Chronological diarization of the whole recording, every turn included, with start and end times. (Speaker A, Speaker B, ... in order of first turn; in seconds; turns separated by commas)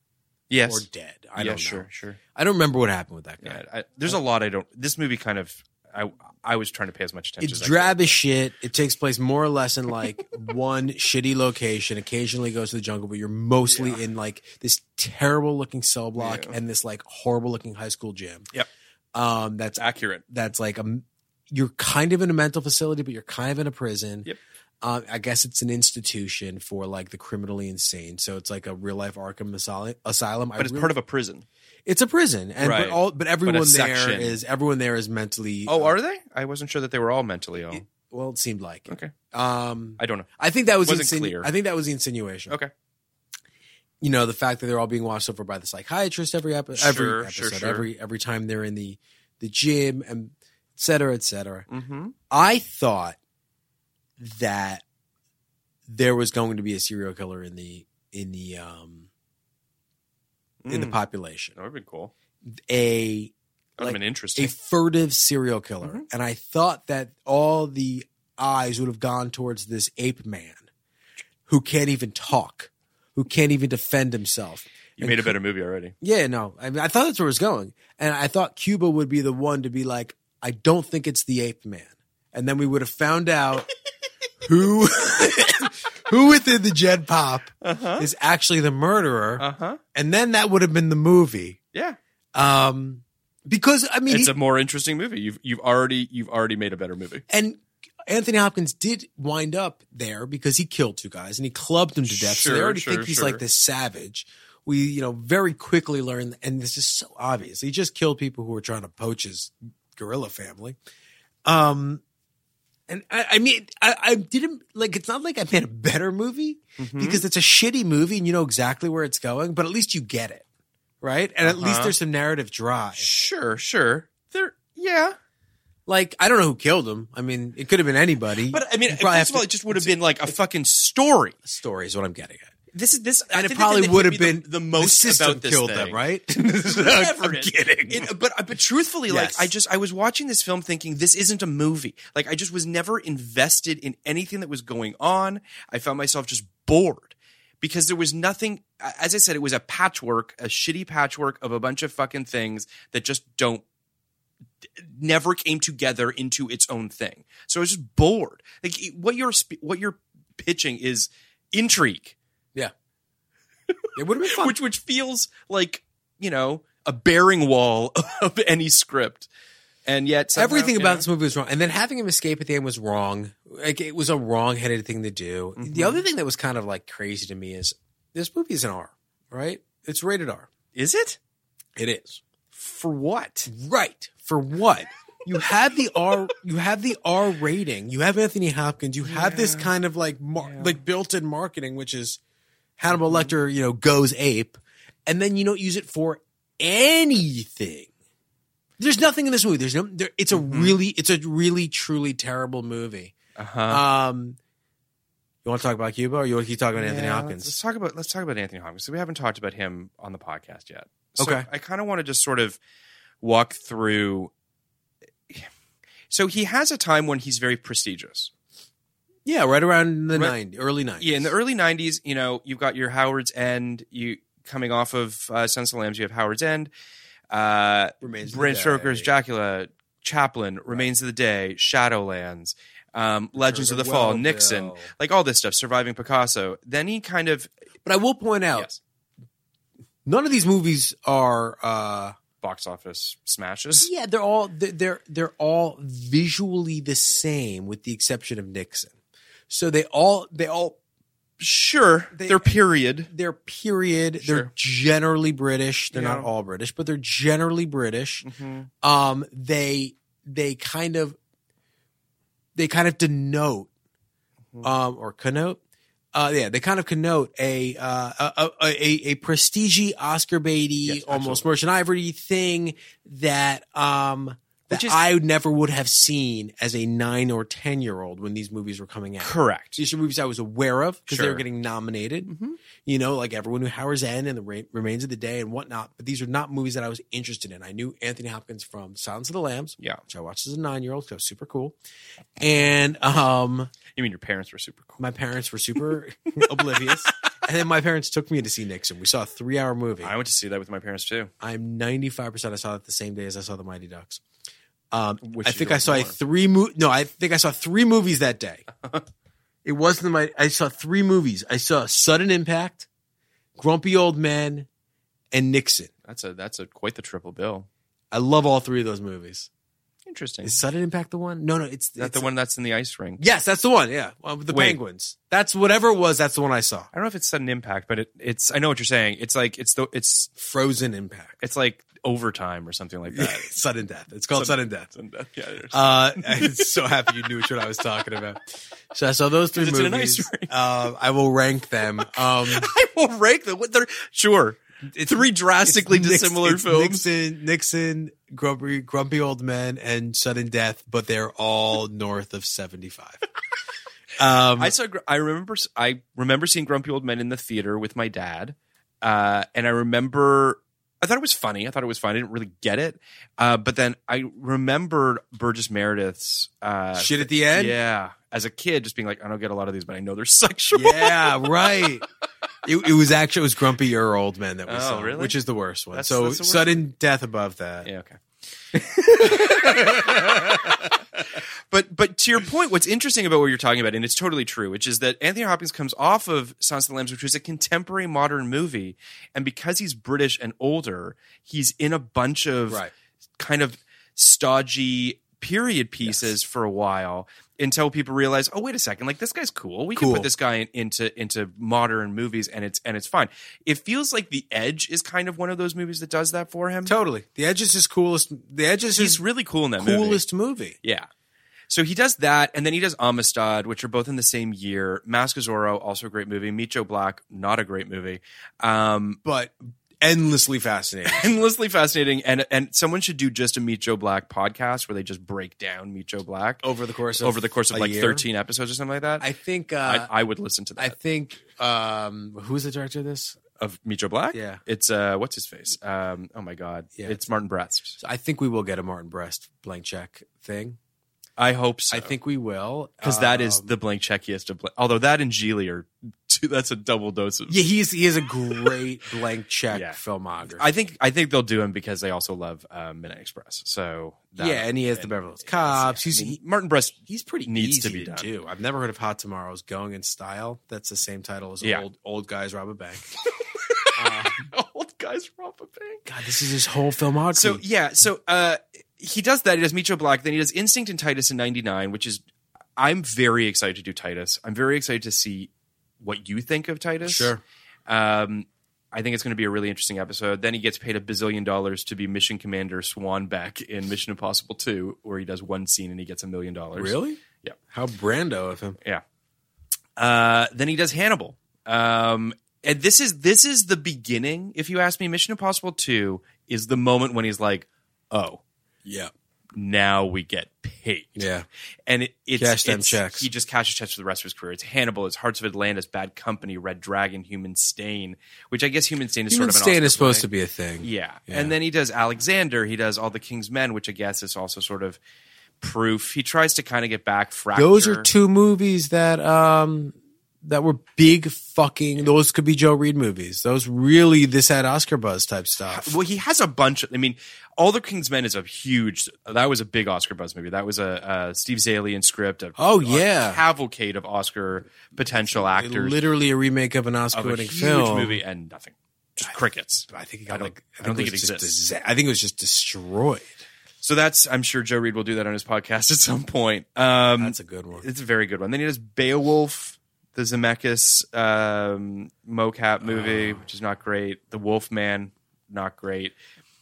Speaker A: 0.5-2.2, Speaker B: 0.7-4.2, Speaker A: 3.4-8.2, Speaker B: 7.4-18.5, Speaker A: 13.7-14.0, Speaker A: 16.2-16.5, Speaker B: 19.1-24.3, Speaker A: 19.8-20.2, Speaker B: 24.8-30.9, Speaker A: 30.6-31.4, Speaker B: 31.9-35.9, Speaker A: 32.6-34.4, Speaker A: 35.7-37.8, Speaker B: 37.7-42.6, Speaker A: 38.9-39.1, Speaker A: 40.0-40.3, Speaker A: 40.8-41.5, Speaker B: 44.0-51.7, Speaker A: 46.7-47.9, Speaker A: 51.7-52.1, Speaker B: 52.3-53.2, Speaker B: 54.2-54.8, Speaker B: 55.9-59.1, Speaker A: 60.6-61.0, Speaker B: 60.7-61.5, Speaker A: 61.6-62.1, Speaker B: 62.5-70.7, Speaker A: 63.8-64.5, Speaker B: 71.5-75.3, Speaker A: 75.0-75.9, Speaker B: 76.0-83.7, Speaker B: 84.4-91.6, Speaker A: 87.6-88.1, Speaker A: 89.4-89.8, Speaker B: 92.3-94.3, Speaker A: 94.1-97.2, Speaker B: 97.3-110.8, Speaker A: 102.1-103.4, Speaker B: 111.4-112.0, Speaker B: 112.9-120.4, Speaker A: 116.8-117.2, Speaker B: 121.0-123.1, Speaker A: 121.4-121.9, Speaker A: 123.0-125.2, Speaker B: 125.9-130.3, Speaker A: 128.5-131.3, Speaker B: 131.4-132.5, Speaker A: 132.7-136.0, Speaker B: 133.3-138.1, Speaker A: 136.7-153.6, Speaker B: 139.1-139.5, Speaker A: 154.8-162.2, Speaker B: 163.9-164.5, Speaker A: 164.3-169.3, Speaker A: 169.8-171.1, Speaker B: 170.3-180.5, Speaker A: 175.6-176.0, Speaker A: 180.7-181.2, Speaker B: 181.8-182.2, Speaker A: 182.5-183.5, Speaker B: 183.5-192.2, Speaker A: 189.0-189.7, Speaker A: 190.4-190.7, Speaker B: 192.8-197.9, Speaker A: 192.9-193.3, Speaker B: 198.8-203.1, Speaker A: 200.3-200.8, Speaker A: 203.4-203.8, Speaker B: 203.7-204.4, Speaker B: 205.4-207.6, Speaker A: 206.8-212.6, Speaker B: 211.2-211.5, Speaker A: 213.2-214.3, Speaker A: 216.1-218.3, Speaker B: 219.2-221.2, Speaker A: 221.0-226.7, Speaker A: 227.3-237.5, Speaker B: 228.0-229.1, Speaker B: 233.3-234.9, Speaker B: 237.8-238.7, Speaker B: 240.0-242.2, Speaker A: 242.4-243.9, Speaker B: 243.7-248.9, Speaker B: 249.5-250.8, Speaker A: 251.4-253.1, Speaker B: 252.1-258.2, Speaker A: 254.2-254.5, Speaker A: 255.9-256.3, Speaker A: 258.2-258.7, Speaker B: 258.8-261.2, Speaker B: 262.6-263.7, Speaker B: 264.6-265.6, Speaker B: 266.1-291.8, Speaker A: 270.8-271.4, Speaker A: 274.7-275.0, Speaker A: 279.2-279.8, Speaker A: 281.1-281.4, Speaker A: 282.3-282.6, Speaker B: 292.4-293.7, Speaker A: 293.9-295.0, Speaker B: 295.0-300.1, Speaker A: 300.0-301.3, Speaker B: 301.4-304.2, Speaker B: 304.9-308.7, Speaker A: 305.2-306.1, Speaker B: 309.6-312.9, Speaker B: 313.6-314.7, Speaker B: 315.3-315.9, Speaker A: 316.1-317.7, Speaker B: 318.1-319.5, Speaker A: 320.1-320.6, Speaker B: 320.4-322.3, Speaker A: 322.0-323.2, Speaker B: 323.2-326.9, Speaker A: 324.5-324.8, Speaker A: 326.9-330.3, Speaker B: 330.4-331.4, Speaker A: 331.4-333.5, Speaker B: 333.1-334.9, Speaker A: 334.3-336.7, Speaker B: 335.7-338.4, Speaker B: 338.9-342.7, Speaker A: 339.6-340.5, Speaker A: 342.4-347.1, Speaker B: 344.9-353.2, Speaker B: 354.2-354.7, Speaker A: 354.6-371.9, Speaker B: 366.9-367.8, Speaker B: 370.7-372.1, Speaker B: 372.6-377.9, Speaker A: 374.7-375.4, Speaker A: 375.9-376.8, Speaker A: 377.8-378.2, Speaker B: 378.7-380.7, Speaker A: 379.2-381.0, Speaker A: 381.7-392.8, Speaker A: 393.4-406.9, Speaker B: 396.0-396.3, Speaker B: 399.9-400.3, Speaker B: 406.9-409.2, Speaker A: 409.0-410.2, Speaker B: 409.8-410.8, Speaker A: 410.8-411.1, Speaker A: 411.7-419.2, Speaker B: 419.2-421.4, Speaker A: 421.1-426.6, Speaker B: 426.6-428.2, Speaker A: 427.2-429.3, Speaker B: 429.2-430.1, Speaker A: 429.8-430.9, Speaker B: 430.8-433.4, Speaker A: 433.6-438.0, Speaker B: 434.3-434.6, Speaker B: 438.0-440.8, Speaker A: 441.4-442.1, Speaker B: 441.9-443.7, Speaker A: 443.0-447.6, Speaker B: 447.5-450.6, Speaker A: 449.7-458.3, Speaker B: 454.4-456.4, Speaker B: 457.0-463.1, Speaker A: 463.6-466.0, Speaker B: 463.9-464.4, Speaker B: 466.1-467.6, Speaker A: 467.3-472.2, Speaker A: 472.8-475.5, Speaker A: 476.0-477.3, Speaker B: 477.0-477.4, Speaker A: 477.9-487.6, Speaker B: 486.7-487.2, Speaker B: 487.7-488.8, Speaker A: 490.0-498.4, Speaker B: 498.8-499.1, Speaker A: 499.5-501.2, Speaker B: 501.1-501.4, Speaker A: 501.9-510.2, Speaker B: 502.4-503.3, Speaker B: 509.3-511.5, Speaker A: 510.8-515.0, Speaker A: 515.6-518.1, Speaker B: 517.5-526.0, Speaker A: 525.7-536.0, Speaker B: 532.6-533.4, Speaker B: 535.2-538.2, Speaker A: 537.1-541.6, Speaker B: 539.9-543.4, Speaker A: 543.8-556.1, Speaker B: 547.2-547.9, Speaker B: 552.9-553.4